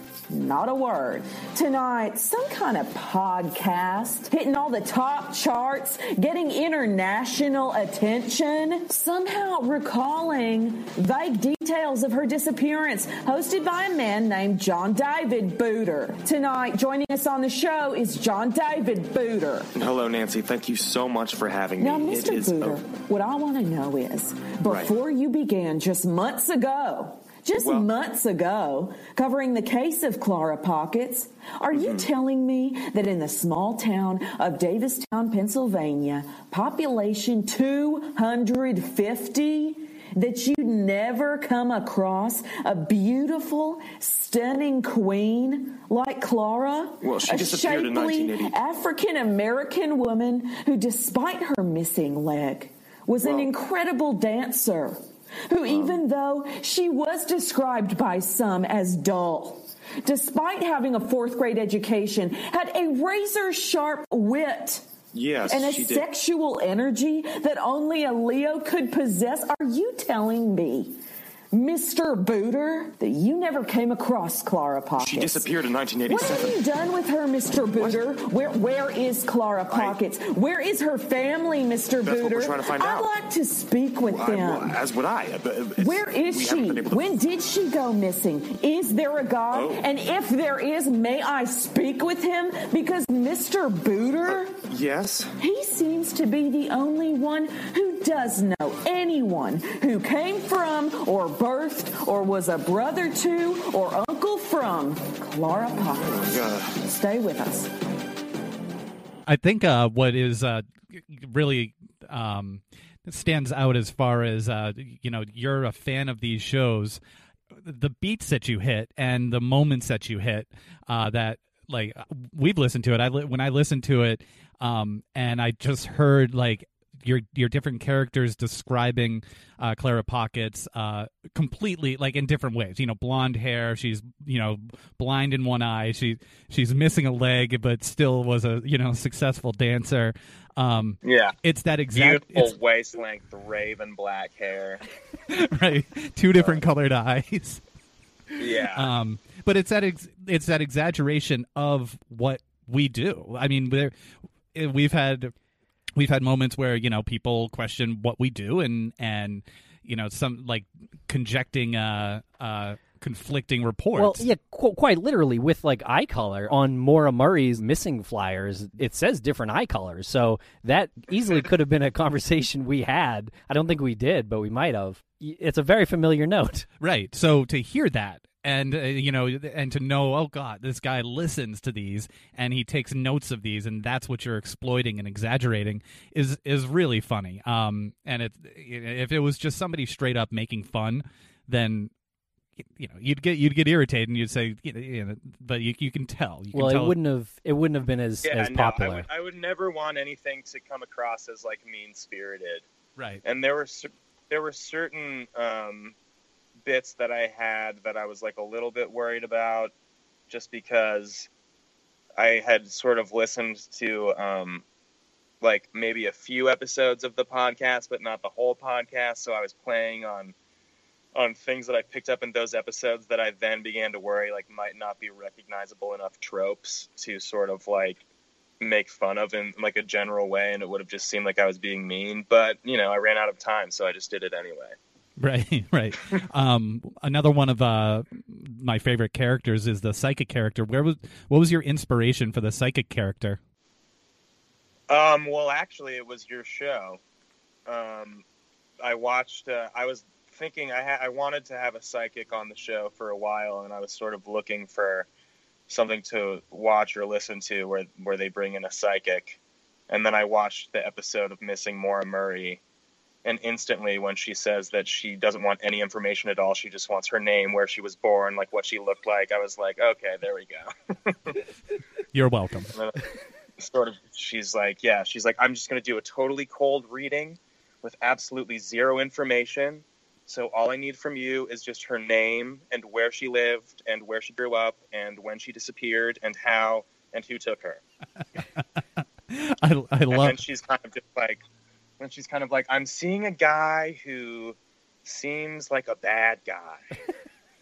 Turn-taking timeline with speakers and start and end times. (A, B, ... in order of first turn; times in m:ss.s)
0:00.3-0:19.7 A
0:19.7-0:22.8 B
0:21.8-1:04.9 A
0:24.6-0:24.9 B
0:27.6-0:27.9 B
0:31.7-0:32.1 B
0:47.0-0:48.5 B
0:53.2-0:53.5 B
0:55.7-0:56.0 B
1:05.1-1:06.0 B
1:05.4-1:11.0 A
1:11.5-1:15.5 A
1:15.0-1:16.6 B
1:16.1-1:24.8 A
1:17.7-1:18.0 B
1:19.7-1:20.0 B
1:22.0-1:23.1 B
1:24.1-1:27.2 B
1:25.8-1:34.7 A
1:29.5-1:29.8 B
1:34.2-1:35.3 B
1:35.4-1:47.7 A
1:46.0-1:46.7 B
1:49.2-1:57.0 C
1:57.6-2:22.5 C
2:21.0-2:21.3 D
2:21.9-2:24.8 D
2:25.3-2:27.6 C
2:26.4-2:26.6 D
2:28.4-2:28.9 D
2:28.7-2:33.9 C
2:34.5-2:35.3 C
2:36.0-2:44.3 C
2:44.0-2:56.6 E
2:56.8-3:11.9 C
3:12.6-3:17.0 C
3:16.5-3:19.0 E
3:18.2-3:22.6 D
3:23.0-3:23.2 C
3:23.2-3:26.0 D
3:26.6-3:29.7 D
3:30.3-3:31.3 D
3:32.2-3:34.6 D
3:35.4-3:40.3 D
3:41.1-3:48.0 D
3:48.6-3:54.8 D
3:55.2-4:03.4 C
4:04.9-4:07.0 D
4:07.6-4:08.2 D
4:08.8-4:15.1 D
4:15.7-4:19.4 D
4:19.9-4:22.6 D
4:23.2-4:31.4 D
4:32.1-4:32.7 C
4:32.7-4:33.1 D
4:33.6-4:47.8 D
4:49.3-4:50.4 C
4:50.1-4:51.4 D
4:52.0-4:56.8 D